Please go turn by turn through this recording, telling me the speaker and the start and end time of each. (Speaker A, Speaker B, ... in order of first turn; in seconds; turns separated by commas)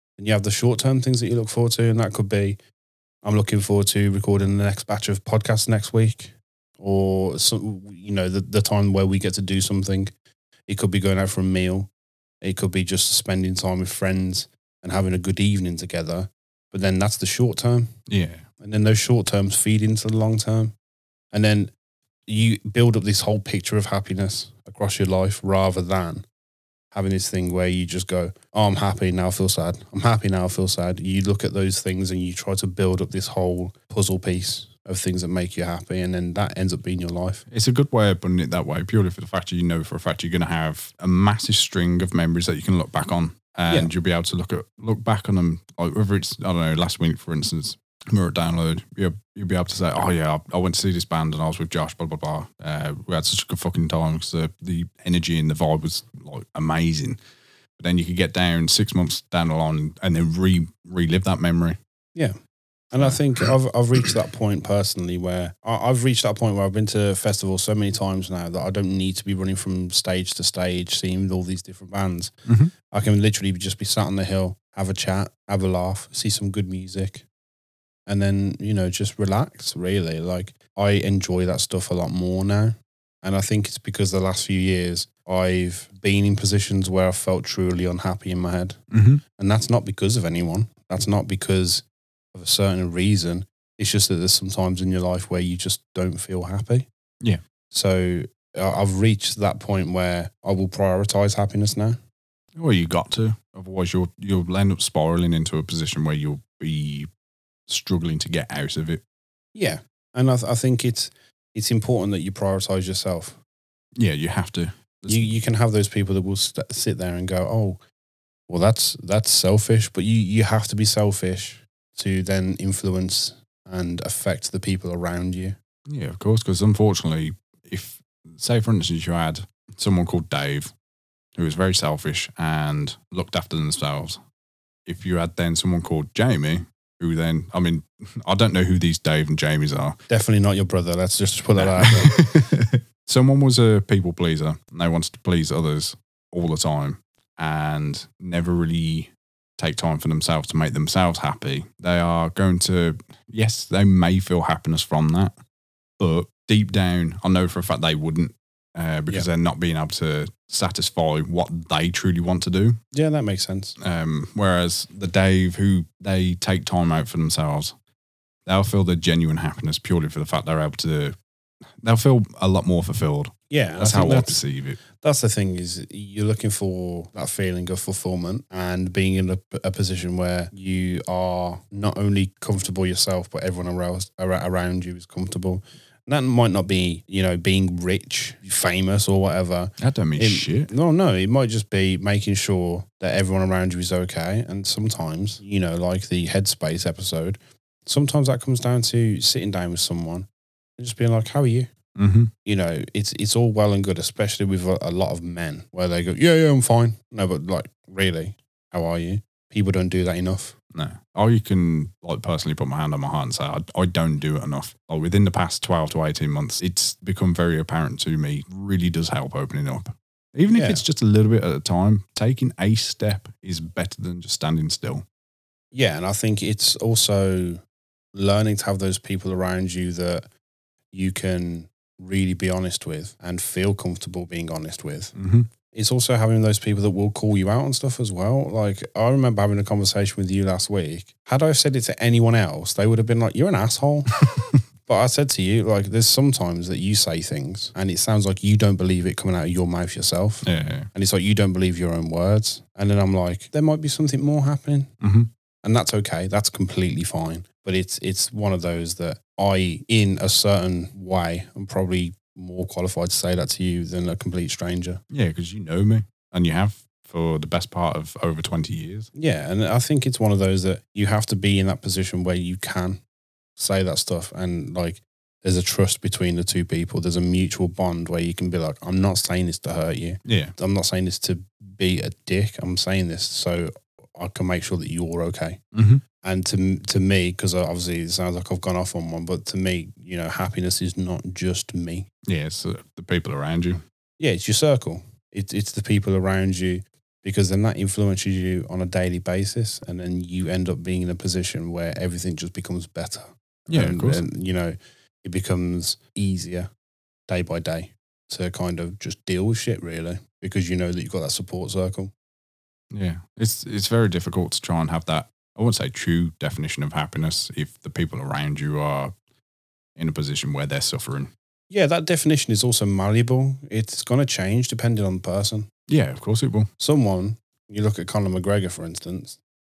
Speaker A: 0.2-2.6, Speaker A: 3.2-10.1, Speaker A: 10.7-11.9, Speaker A: 12.4-17.9, Speaker B: 18.1-18.4, Speaker A: 18.6-20.7, Speaker A: 21.3-21.7, Speaker A: 22.3-26.2, Speaker A: 26.9-37.4, Speaker B: 37.5-57.2, Speaker B: 57.8-61.8, Speaker A: 62.9-72.3, Speaker B: 72.5-72.7, Speaker A: 72.9-77.2, Speaker A: 78.1-88.8, Speaker B: 88.9-89.2, Speaker A: 89.4-96.9, Speaker A: 97.7-102.0, Speaker B: 102.6-107.1, Speaker B: 107.7-109.0, Speaker A: 109.5-113.4, Speaker B: 114.0-115.4, Speaker A: 115.1-117.8, Speaker A: 118.5-125.6, Speaker B: 125.9-130.7, Speaker B: 131.3-134.2, Speaker B: 134.9-140.0, Speaker A: 140.1-142.2, Speaker B: 141.6-155.3, Speaker B: 156.0-162.8, Speaker A: 162.9-163.8, Speaker B: 163.8-167.7, Speaker B: 168.5-171.2, Speaker B: 171.8-174.8, Speaker A: 173.5-174.4, Speaker A: 175.0-201.7, Speaker B: 189.8-190.7, Speaker B: 201.9-202.3, Speaker A: 202.4-210.5, Speaker B: 210.7-225.0, Speaker A: 220.5-220.8, Speaker A: 225.7-227.6, Speaker A: 228.1-230.2, Speaker A: 230.9-235.1, Speaker B: 235.2-235.5, Speaker A: 235.7-244.1, Speaker A: 244.9-254.9, Speaker B: 250.4-250.9, Speaker B: 255.0-255.3, Speaker A: 255.6-265.0, Speaker B: 265.1-269.1, Speaker A: 269.1-273.0, Speaker A: 273.6-285.6, Speaker B: 280.2-280.5, Speaker B: 285.7-286.0, Speaker A: 286.2-292.1, Speaker B: 292.3-293.8, Speaker A: 294.2-306.7, Speaker B: 303.7-304.2, Speaker A: 307.3-312.1, Speaker B: 312.9-319.1, Speaker B: 320.0-321.3, Speaker A: 321.7-325.7, Speaker B: 325.9-326.7, Speaker A: 326.8-329.4